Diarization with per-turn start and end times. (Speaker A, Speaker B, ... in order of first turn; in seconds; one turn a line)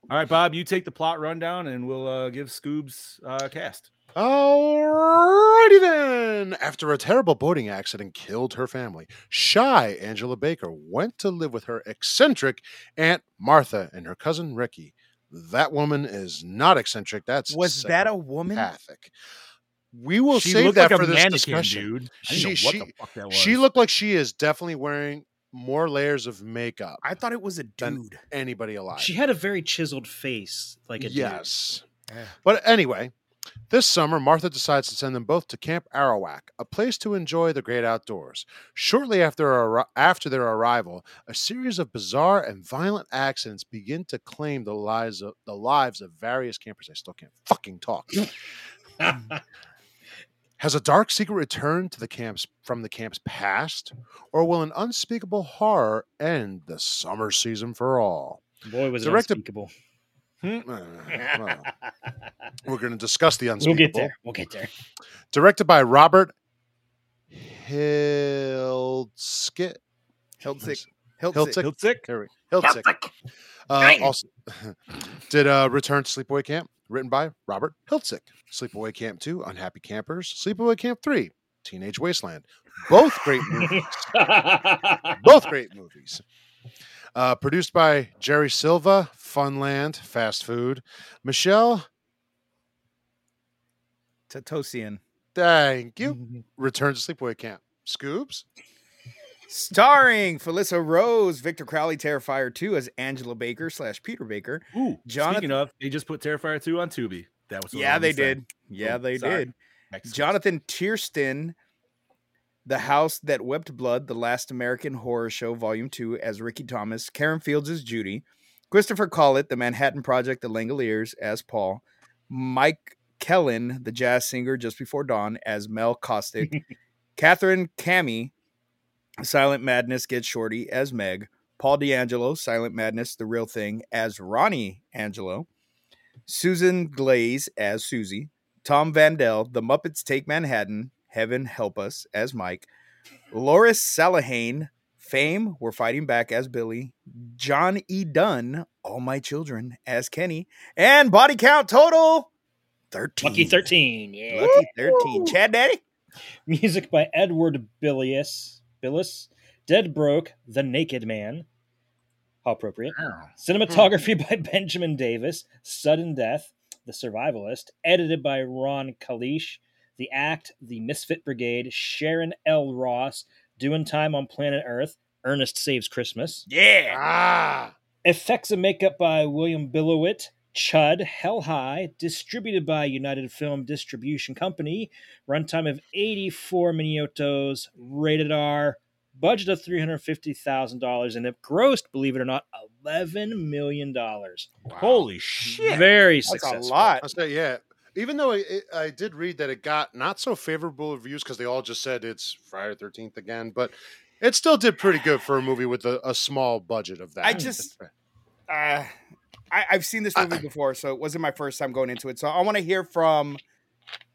Speaker A: 0.1-3.9
Speaker B: 4.2-19.1
Speaker C: 17.5-18.7
Speaker B: 19.9-27.0
Speaker A: 20.3-23.6
Speaker C: 27.0-28.2
Speaker B: 27.8-29.1
Speaker D: 28.9-31.4
Speaker B: 31.0-31.9
Speaker C: 32.1-32.4
Speaker B: 32.4-33.1
Speaker B: 33.7-48.3
Speaker B: 50.6-58.4
Speaker D: 58.6-59.7
Speaker B: 59.0-59.4
Speaker B: 60.6-61.7
Speaker D: 61.1-61.7
Speaker B: 62.6-64.1
Speaker D: 63.6-64.7
Speaker B: 65.3-66.3
Speaker B: 67.3-69.8
Speaker C: 70.4-71.6
Speaker B: 71.3-72.9
Speaker A: 71.6-72.1
Speaker D: 72.6-73.1
Speaker B: 73.7-84.3
Speaker D: 73.8-74.1
Speaker D: 83.5-85.2
Speaker B: 85.2-86.2
Speaker B: 87.2-91.9
Speaker C: 94.3-95.0
Speaker B: 95.3-98.4
Speaker C: 99.5-105.5
Speaker A: 104.7-110.4
Speaker C: 107.7-109.5
Speaker C: 110.1-111.5
Speaker C: 112.7-126.6
Speaker C: 127.2-128.3
Speaker C: 129.2-135.5
Speaker C: 136.3-142.7
Speaker C: 143.3-152.3
Speaker C: 152.9-153.7
Speaker D: 153.2-154.7
Speaker C: 154.3-155.8
Speaker A: 154.5-155.3
Speaker D: 156.5-161.5
Speaker D: 162.4-176.5
Speaker A: 162.9-163.3
Speaker A: 176.5-177.0
Speaker B: 176.9-177.7
Speaker D: 178.0-194.5
Speaker B: 194.7-195.1
Speaker A: 194.8-195.9
Speaker D: 195.6-196.9
Speaker C: 196.3-197.1
Speaker B: 197.0-207.9
Speaker C: 207.2-207.7
Speaker C: 208.5-208.9
Speaker C: 209.5-213.4